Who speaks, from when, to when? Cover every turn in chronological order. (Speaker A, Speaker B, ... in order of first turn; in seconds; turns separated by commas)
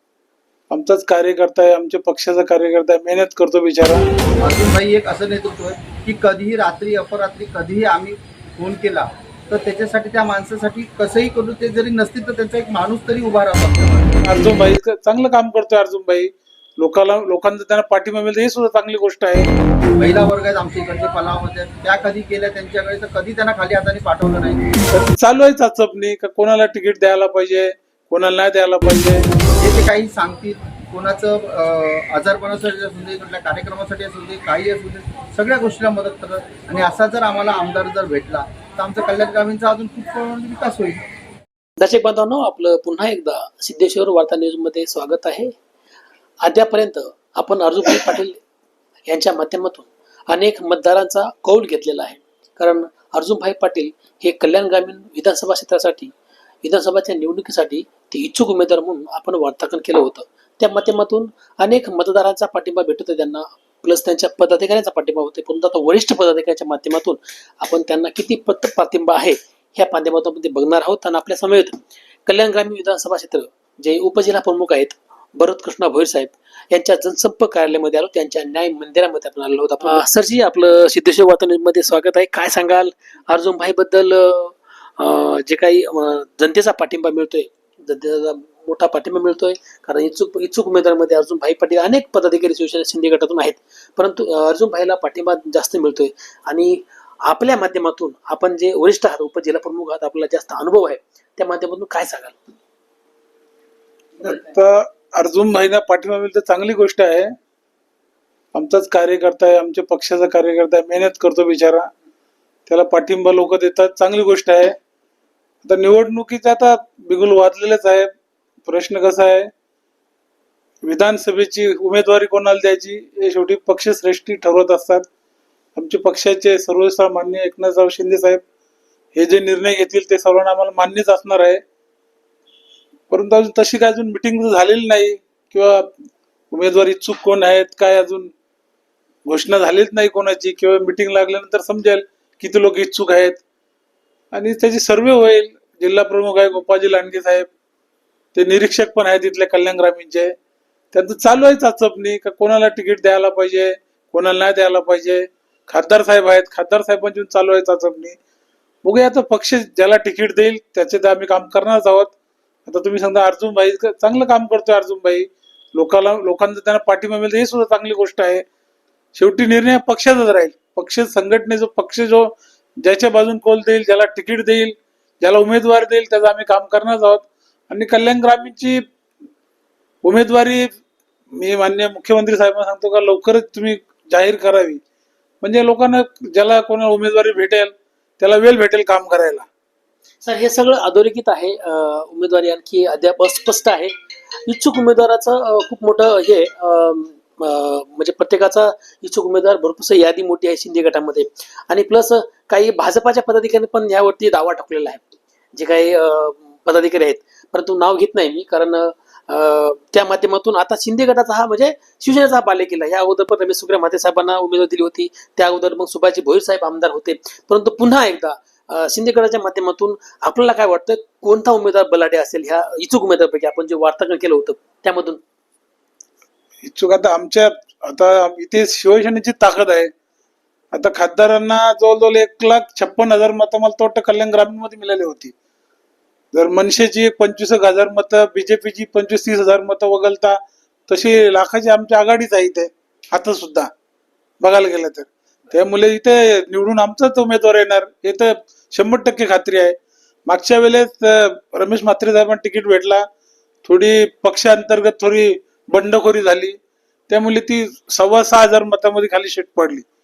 Speaker A: 0.7-4.1, Speaker B: 4.4-14.2, Speaker A: 14.2-19.5, Speaker B: 20.0-24.7, Speaker A: 24.9-29.3, Speaker B: 29.6-41.0, Speaker C: 41.8-45.5, Speaker C: 46.4-48.4, Speaker C: 49.1-102.5, Speaker A: 104.2-107.3, Speaker A: 108.5-111.9, Speaker A: 112.7-114.8, Speaker A: 115.6-118.1, Speaker A: 118.7-119.5, Speaker A: 120.8-125.1, Speaker A: 125.8-128.4, Speaker A: 129.2-131.6, Speaker A: 133.1-135.9, Speaker A: 136.5-138.3, Speaker A: 139.3-143.4, Speaker A: 144.3-147.5, Speaker A: 148.3-150.3, Speaker A: 150.9-158.2, Speaker A: 158.8-162.1, Speaker A: 162.7-168.4, Speaker A: 169.2-178.8, Speaker A: 180.0-180.7, Speaker A: 181.3-184.8, Speaker A: 185.4-189.5, Speaker C: 190.2-193.9, Speaker C: 194.5-225.2, Speaker A: 226.6-229.9, Speaker A: 230.7-235.3, Speaker A: 236.3-243.7, Speaker A: 244.4-249.8, Speaker A: 250.3-253.1, Speaker A: 253.6-256.6, Speaker A: 257.1-259.9